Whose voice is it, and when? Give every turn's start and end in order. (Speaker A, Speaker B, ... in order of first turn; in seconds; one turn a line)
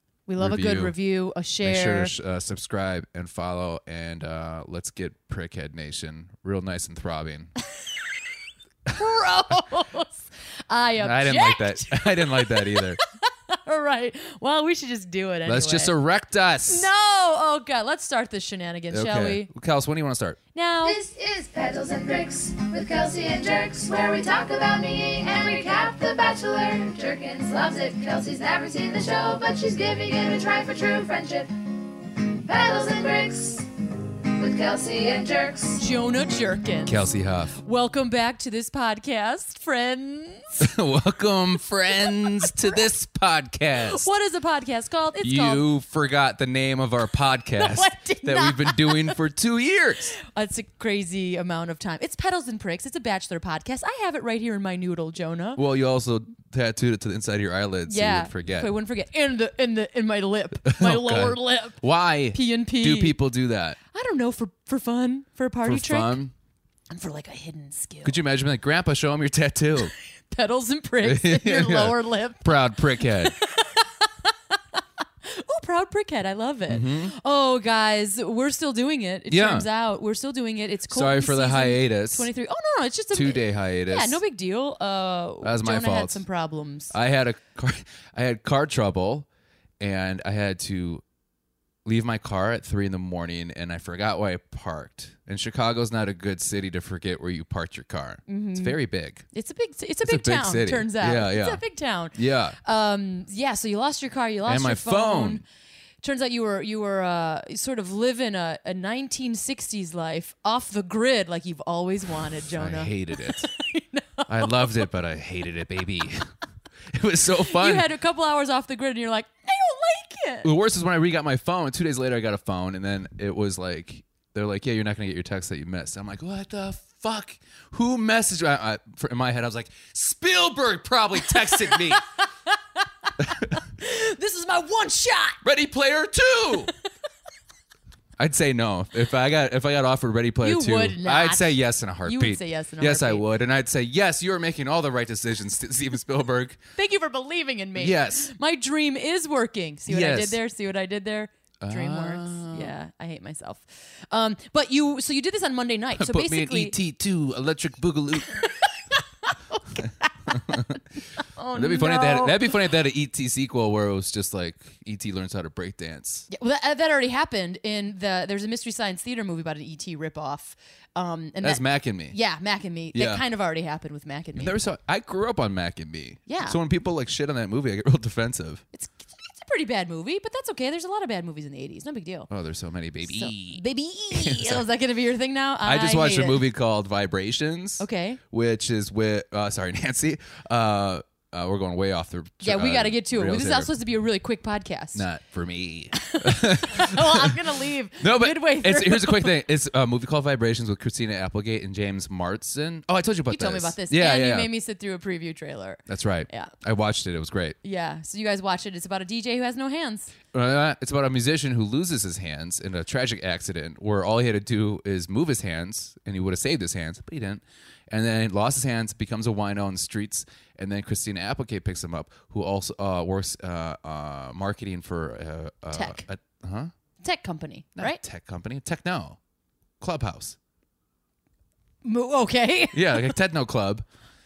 Speaker A: 0.3-2.1
Speaker B: 0.4-0.9
Speaker B: 1.6-7.5
Speaker A: 8.9-15.9
Speaker B: 11.0-13.0
Speaker B: 15.4-16.9
Speaker A: 16.7-19.5
Speaker B: 18.9-20.4
Speaker A: 20.5-21.0
Speaker C: 20.8-31.7
Speaker C: 32.3-33.7
Speaker C: 34.3-35.8
Speaker A: 35.8-40.7
Speaker B: 36.8-37.5
Speaker B: 40.6-44.1
Speaker A: 42.0-42.8
Speaker A: 43.8-45.6
Speaker B: 45.2-50.1
Speaker A: 47.5-49.2
Speaker A: 50.2-55.6
Speaker B: 55.5-58.7
Speaker A: 57.9-61.8
Speaker B: 60.6-63.8
Speaker A: 62.3-63.2
Speaker A: 63.9-66.2
Speaker B: 65.6-66.3
Speaker A: 66.9-68.2
Speaker B: 68.0-69.9
Speaker A: 70.3-86.9
Speaker B: 71.0-73.3
Speaker B: 76.7-77.1
Speaker B: 79.3-79.7
Speaker B: 80.9-82.3
Speaker B: 83.1-84.2
Speaker B: 85.4-86.2
Speaker B: 86.9-89.3
Speaker B: 89.8-91.0
Speaker B: 91.8-99.2
Speaker A: 98.3-98.8
Speaker A: 99.3-105.4
Speaker B: 100.0-101.6
Speaker B: 102.1-102.6
Speaker B: 104.5-105.4
Speaker A: 106.0-114.8
Speaker B: 112.5-113.5
Speaker B: 114.3-116.3
Speaker B: 116.9-117.9
Speaker A: 117.4-120.5
Speaker B: 120.4-132.0
Speaker A: 131.3-135.4
Speaker B: 133.2-133.5
Speaker B: 135.4-136.7
Speaker B: 138.2-146.6
Speaker A: 140.4-143.2
Speaker A: 146.8-156.8
Speaker B: 147.8-148.3
Speaker B: 149.9-150.4
Speaker B: 151.6-152.7
Speaker B: 155.9-158.4
Speaker A: 158.2-162.5
Speaker B: 159.8-160.8
Speaker B: 161.5-166.3
Speaker A: 166.3-174.6
Speaker B: 171.4-172.2
Speaker B: 172.9-173.2
Speaker B: 174.3-178.6
Speaker A: 176.3-176.6
Speaker A: 178.7-182.3
Speaker B: 182.3-184.7
Speaker A: 183.0-186.4
Speaker B: 185.6-193.7
Speaker A: 187.8-188.2
Speaker A: 192.4-195.1
Speaker B: 194.9-197.4
Speaker A: 195.9-199.3
Speaker B: 198.0-204.5
Speaker A: 203.3-206.5
Speaker B: 205.9-207.6
Speaker A: 207.6-210.1
Speaker B: 210.3-226.7
Speaker A: 225.7-226.0
Speaker A: 227.0-228.0
Speaker B: 227.8-229.2
Speaker B: 229.8-230.4
Speaker A: 231.8-233.2
Speaker B: 232.7-233.8